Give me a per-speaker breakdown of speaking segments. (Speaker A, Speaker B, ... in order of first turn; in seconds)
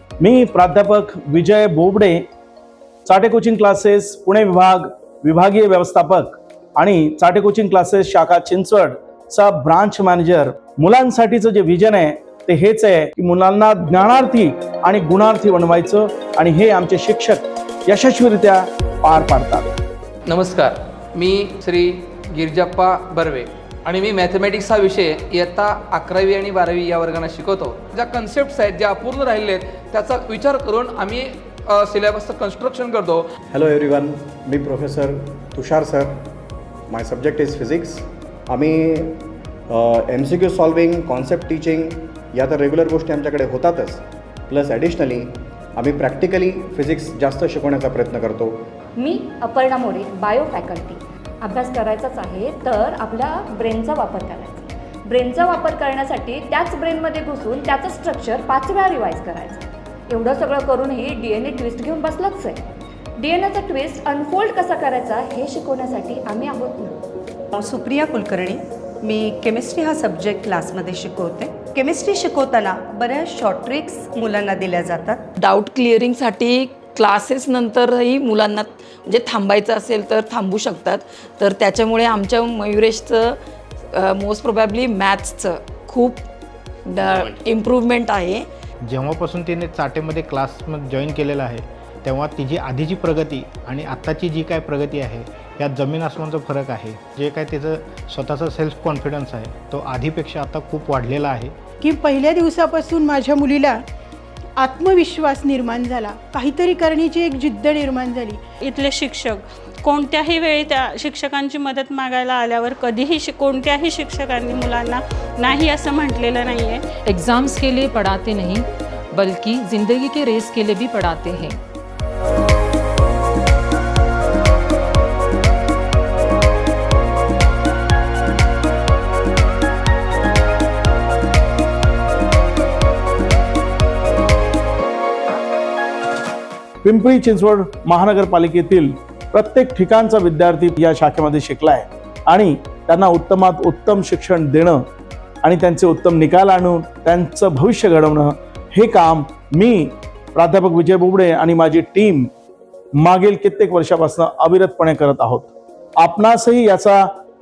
Speaker A: 0.2-2.2, 3.0-19.7, 136.8-144.8, 145.4-152.3, 153.0-157.1
Speaker B: 20.3-33.2
Speaker C: 33.5-36.3, 36.9-48.6
Speaker D: 49.0-62.6, 63.2-67.0
Speaker E: 67.7-68.5, 69.1-75.2
Speaker F: 75.4-83.4, 83.9-86.3, 86.8-88.5
Speaker G: 88.8-101.5
Speaker H: 101.8-103.8, 104.6-108.4
Speaker I: 108.7-116.8
Speaker J: 117.0-121.6